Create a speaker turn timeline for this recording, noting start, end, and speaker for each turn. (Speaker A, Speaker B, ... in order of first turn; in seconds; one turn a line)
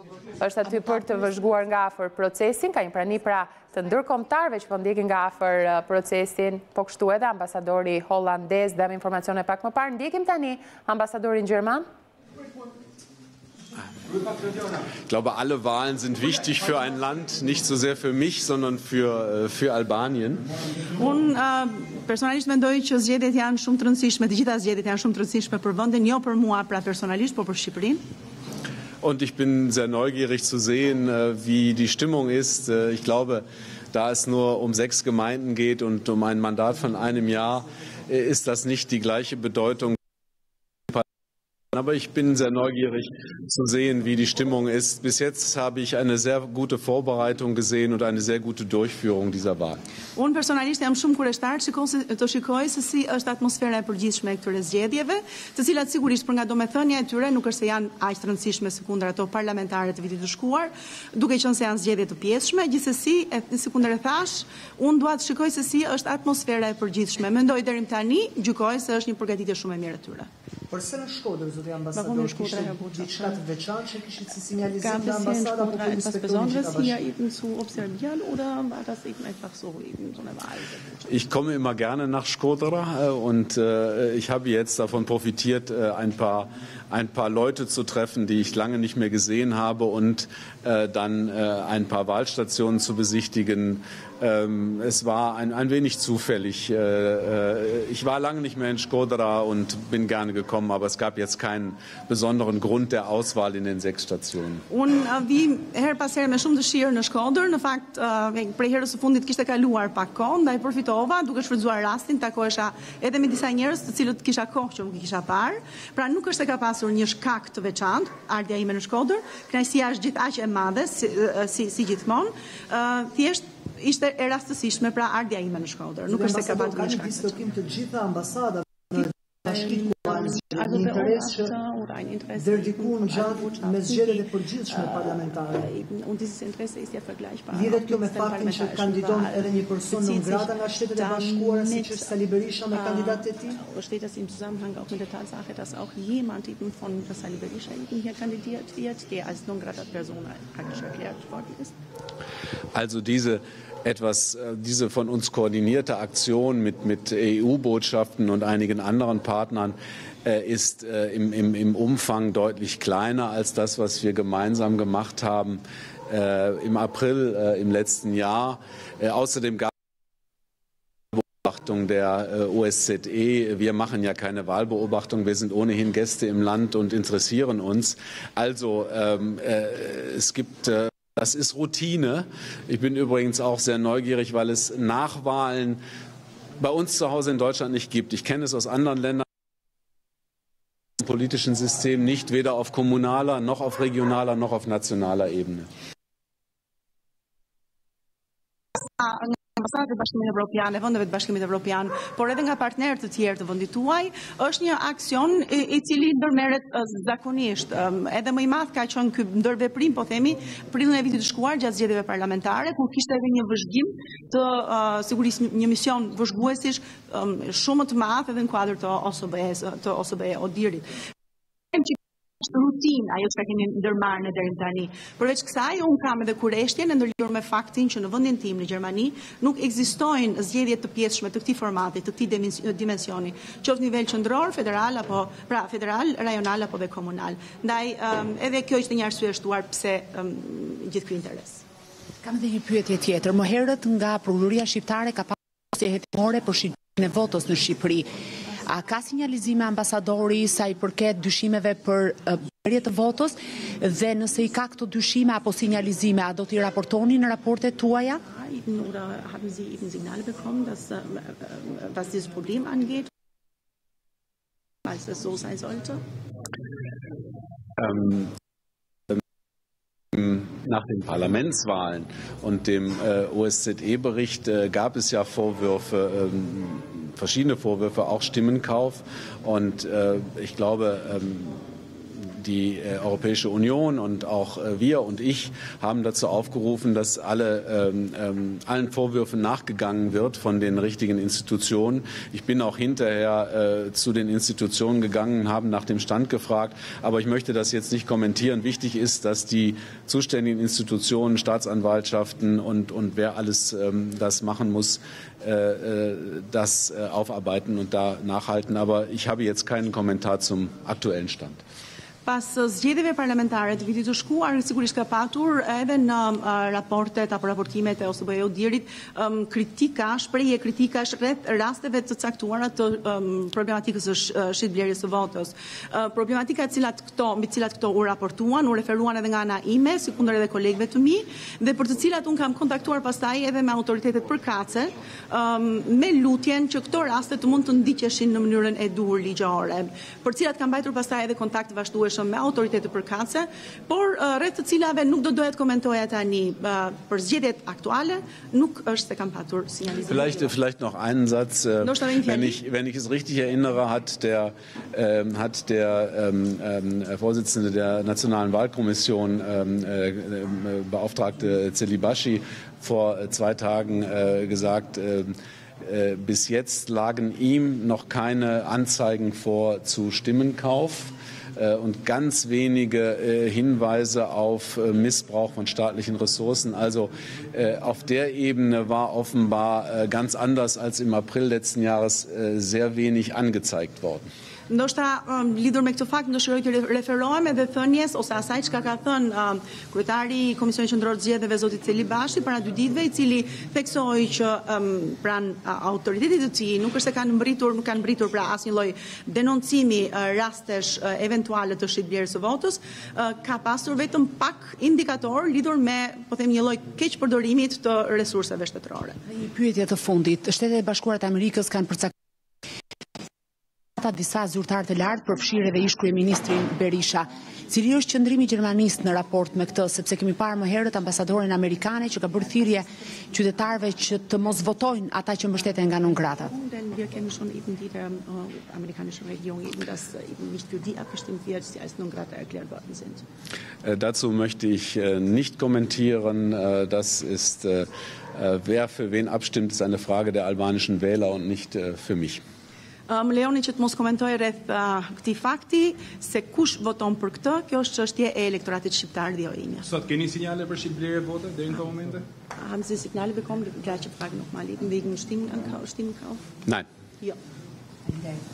Speaker A: 0.4-11.8
Speaker B: 15.1-20.4
Speaker C: 20.9-28.0
Speaker B: 29.0-40.0
Speaker B: 41.7-49.8
Speaker C: 50.1-70.3
Speaker D: 70.7-77.0
Speaker C: 71.9-73.4
Speaker C: 74.8-81.0
Speaker B: 81.1-104.6
Speaker C: 104.7-127.4
Speaker D: 126.1-131.5
Speaker C: 129.4-142.1
Speaker D: 132.3-135.7
Speaker D: 137.5-143.6
Speaker C: 142.7-151.7
Speaker B: 152.7-169.7
Speaker B: 171.1-185.8
Speaker B: 186.6-189.2
Speaker B: 191.0-195.7
Speaker C: 198.8-220.8
Speaker C: 221.7-241.6
Speaker E: 242.2-248.1
Speaker E: 248.7-258.2
Speaker C: 258.3-263.1
Speaker C: 264.8-266.0
Speaker B: 267.8-268.3
Speaker B: 270.1-281.6
Speaker B: 282.2-311.6
Speaker C: 312.2-350.5
Speaker B: 350.1-384.3
Speaker C: 351.8-352.6
Speaker C: 384.7-409.2
Speaker E: 409.3-412.1
Speaker E: 414.0-426.4
Speaker C: 426.3-433.2
Speaker B: 433.8-442.4
Speaker C: 443.1-449.9
Speaker F: 449.8-452.3
Speaker C: 452.6-456.4